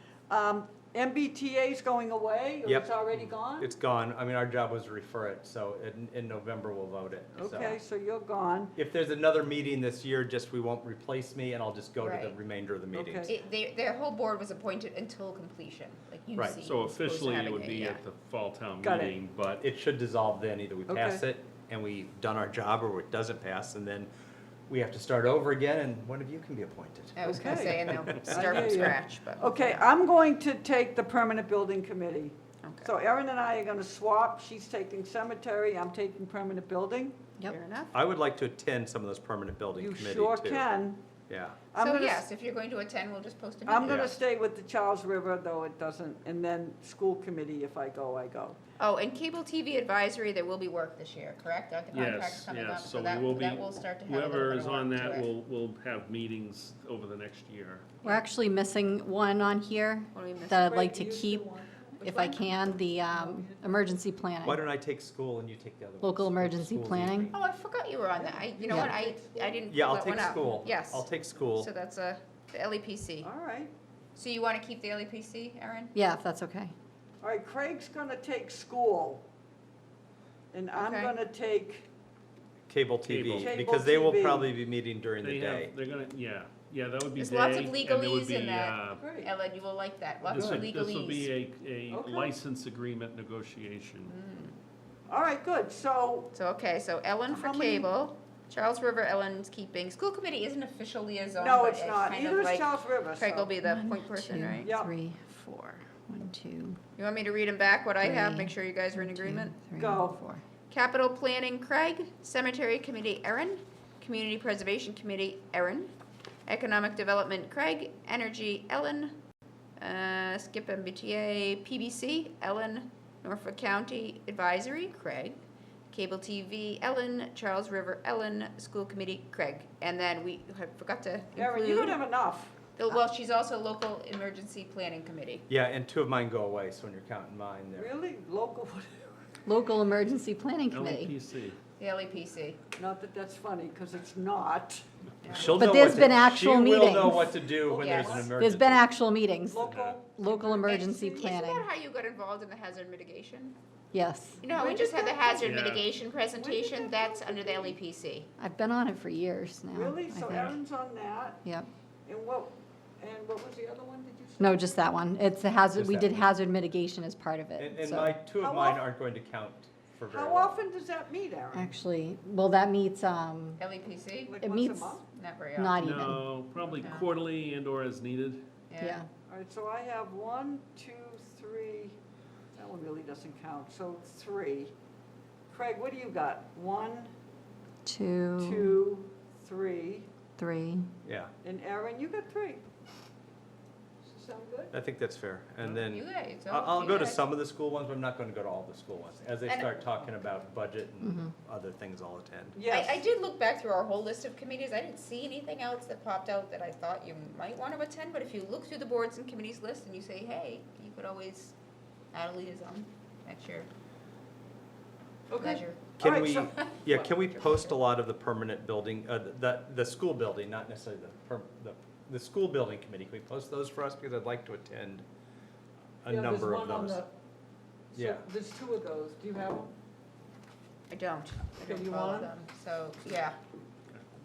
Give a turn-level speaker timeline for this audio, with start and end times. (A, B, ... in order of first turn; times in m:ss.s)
0:00.3-0:03.7 A
0:02.6-0:02.9 B
0:03.5-0:07.8 B
0:07.3-0:08.7 A
0:08.8-0:13.3 B
0:12.0-0:12.4 C
0:12.9-0:13.3 A
0:13.3-0:18.0 C
0:16.4-0:16.6 B
0:16.6-0:19.6 D
0:18.8-0:19.2 A
0:19.6-0:24.1 B
0:20.9-0:21.2 A
0:24.7-0:28.9 B
0:27.2-0:29.9 C
0:27.2-0:37.2 A
0:32.6-0:32.9 C
0:37.5-0:37.9 C
0:37.9-0:40.6 B
0:39.8-0:41.0 A
0:41.3-0:41.6 B
0:41.7-0:42.3 A
0:41.8-0:44.1 C
0:43.6-0:48.6 A
0:43.8-0:44.1 B
0:48.8-0:55.3 C
0:51.9-0:58.1 D
0:58.0-1:01.5 E
1:00.1-1:00.6 C
1:00.6-1:04.0 A
1:02.0-1:04.6 E
1:04.4-1:07.3 B
1:06.0-1:07.3 E
1:07.3-1:11.1 C
1:08.1-1:10.7 A
1:09.7-1:11.7 B
1:11.6-1:13.3 C
1:13.2-1:13.7 A
1:14.1-1:15.9 C
1:15.9-1:16.7 E
1:17.2-1:19.2 A
1:20.5-1:21.9 A
1:20.7-1:21.1 C
1:22.7-1:25.7 B
1:23.0-1:23.6 D
1:23.4-1:24.5 A
1:25.2-1:29.2 D
1:27.2-1:31.3 C
1:28.9-1:29.4 A
1:30.2-1:34.1 D
1:31.9-1:32.3 A
1:34.1-1:34.6 C
1:35.1-1:36.3 A
1:36.3-1:44.7 C
1:37.3-1:38.0 A
1:41.4-1:43.6 A
1:43.6-1:46.8 E
1:44.6-1:44.9 A
1:47.0-1:49.7 C
1:48.0-1:50.4 E
1:49.7-1:50.2 A
1:50.7-1:55.9 C
1:56.5-1:59.2 C
1:59.8-2:05.4 C
2:05.9-2:12.1 C
2:11.3-2:12.6 A
2:12.7-2:15.4 C
2:15.5-2:17.9 B
2:17.8-2:19.3 A
2:19.4-2:21.1 E
2:20.7-2:21.6 D
2:21.8-2:22.6 C
2:22.7-2:24.8 A
2:25.2-2:25.6 C
2:25.4-2:28.8 B
2:25.5-2:27.5 E
2:27.6-2:28.4 A
2:27.8-2:28.2 C
2:28.2-2:31.7 E
2:29.5-2:31.3 A
2:29.6-2:30.0 D
2:30.6-2:33.6 C
2:33.9-2:34.4 E
2:34.4-2:38.3 C
2:34.5-2:35.6 A
2:35.4-2:35.9 D
2:36.2-2:37.8 A
2:38.4-2:40.6 E
2:39.7-2:41.4 A
2:42.0-2:44.7 A
2:44.4-2:48.2 E
2:45.7-2:46.3 B
2:47.6-2:50.6 B
2:48.4-2:48.8 A
2:50.1-2:51.7 A
2:51.5-2:53.6 E
2:53.6-2:54.4 C
2:54.2-2:55.1 A
2:54.4-2:55.0 E
2:55.1-2:55.8 C
2:55.6-2:56.3 E
2:55.8-2:58.5 D
2:56.7-2:56.9 A
2:56.8-2:57.1 C
2:58.7-2:59.0 C
2:58.8-2:59.1 E
2:59.3-3:02.0 A
3:02.5-3:04.7 A
3:05.5-3:07.1 A
3:07.8-3:08.8 E
3:08.4-3:10.1 A
3:10.4-3:10.9 E
3:11.0-3:11.3 B
3:11.4-3:12.6 A
3:14.0-3:14.7 A
3:14.7-3:22.6 B
3:15.7-3:17.3 C
3:19.5-3:19.8 C
3:21.0-3:21.3 E
3:22.5-3:23.1 A
3:22.7-3:31.5 C
3:32.1-3:33.7 C
3:35.3-3:37.3 A
3:35.3-3:35.9 C
3:36.0-3:45.0 B
3:37.3-3:37.7 C
3:46.0-3:47.0 B
3:46.0-3:47.1 A
3:47.9-3:49.7 A
3:47.9-3:48.2 B
3:50.9-3:53.4 C
3:51.6-3:52.4 A